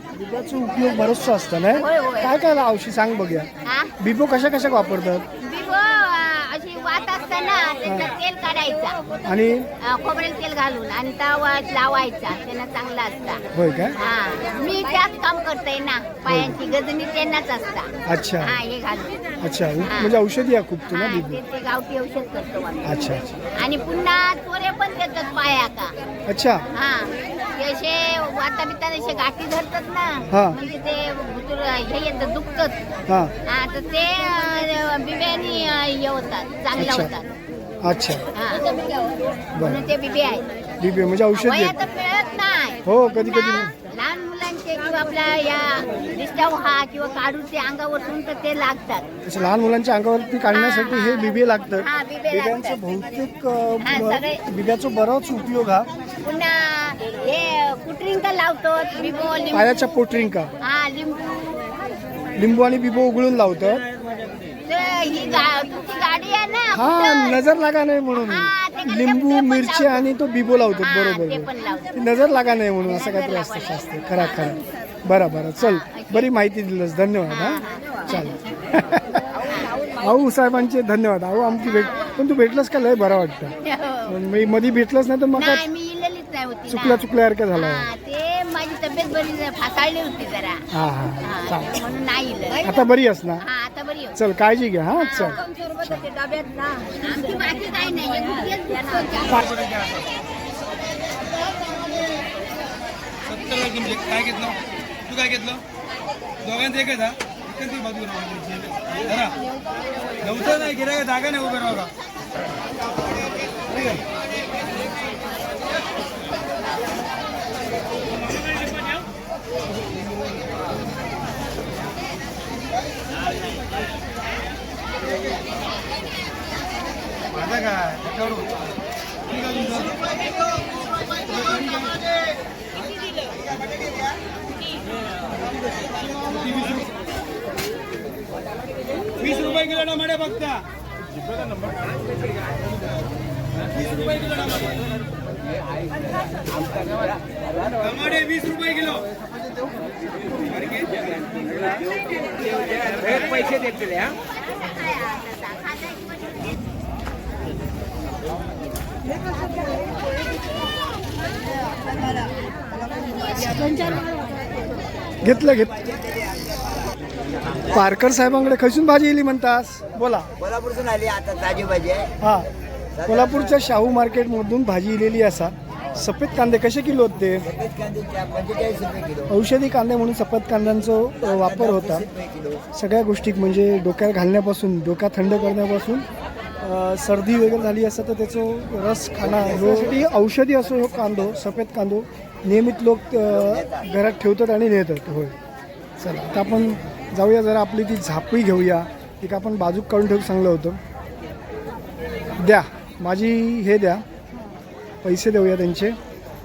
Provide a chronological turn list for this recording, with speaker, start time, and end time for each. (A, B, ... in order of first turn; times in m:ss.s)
0:00.1-0:05.2 A
0:01.7-0:02.3 B
0:03.6-0:03.9 B
0:05.4-0:09.1 B
0:07.8-0:08.1 A
0:09.2-0:09.7 A
0:09.8-0:13.4 B
0:13.5-0:14.0 A
0:14.0-0:17.9 B
0:16.3-0:16.6 A
0:18.0-0:18.6 A
0:18.4-0:19.2 B
0:19.4-0:21.4 A
0:19.9-0:20.2 B
0:20.9-0:25.9 B
0:22.8-0:23.4 A
0:26.3-0:26.6 A
0:26.7-0:32.8 B
0:30.3-0:30.6 A
0:33.4-0:37.2 B
0:36.8-0:37.1 A
0:37.8-0:38.3 A
0:38.3-0:39.0 B
0:39.5-0:39.9 A
0:39.6-0:40.5 B
0:40.8-0:41.8 A
0:41.3-0:49.0 B
0:42.8-0:43.7 A
0:49.2-0:55.9 A
0:50.5-0:52.8 B
0:53.8-0:54.4 B
0:56.2-0:59.7 B
0:59.5-1:00.5 A
1:00.6-1:01.7 B
1:02.4-1:03.8 A
1:04.7-1:07.4 B
1:06.7-1:19.4 A
1:08.1-1:10.0 B
1:10.8-1:12.0 B
1:12.8-1:13.8 B
1:15.6-1:16.3 B
1:17.3-1:18.3 B
1:19.4-1:19.8 B
1:20.0-1:23.5 A
1:21.8-1:22.2 B
1:23.6-1:24.1 B
1:24.1-1:25.6 A
1:25.4-1:30.6 B
1:26.7-1:27.9 A
1:30.7-1:31.8 A
1:31.2-1:32.8 B
1:32.6-1:33.4 A
1:33.4-1:34.2 B
1:34.2-1:36.0 A
1:35.0-1:39.5 B
1:39.4-1:40.0 C
1:43.2-1:45.6 C
1:46.4-1:49.4 C
1:50.2-1:51.9 C
2:07.3-2:08.5 C
2:09.3-2:10.0 C
2:16.3-2:16.8 C
2:19.2-2:20.6 C
2:23.8-2:24.7 C
2:27.8-2:29.1 C
2:30.6-2:31.7 C
2:33.3-2:33.8 B
2:34.6-2:36.2 B
2:43.4-2:44.0 A
2:45.2-2:45.8 A
2:47.6-2:50.3 A
2:50.5-2:52.0 D
2:52.2-2:52.5 A
2:53.0-2:57.5 A
2:57.7-2:59.1 D
2:59.3-3:02.1 A
3:02.7-3:06.0 A
3:06.6-3:15.3 A
3:16.0-3:20.8 A
3:22.4-3:24.0 A
3:25.0-3:26.0 A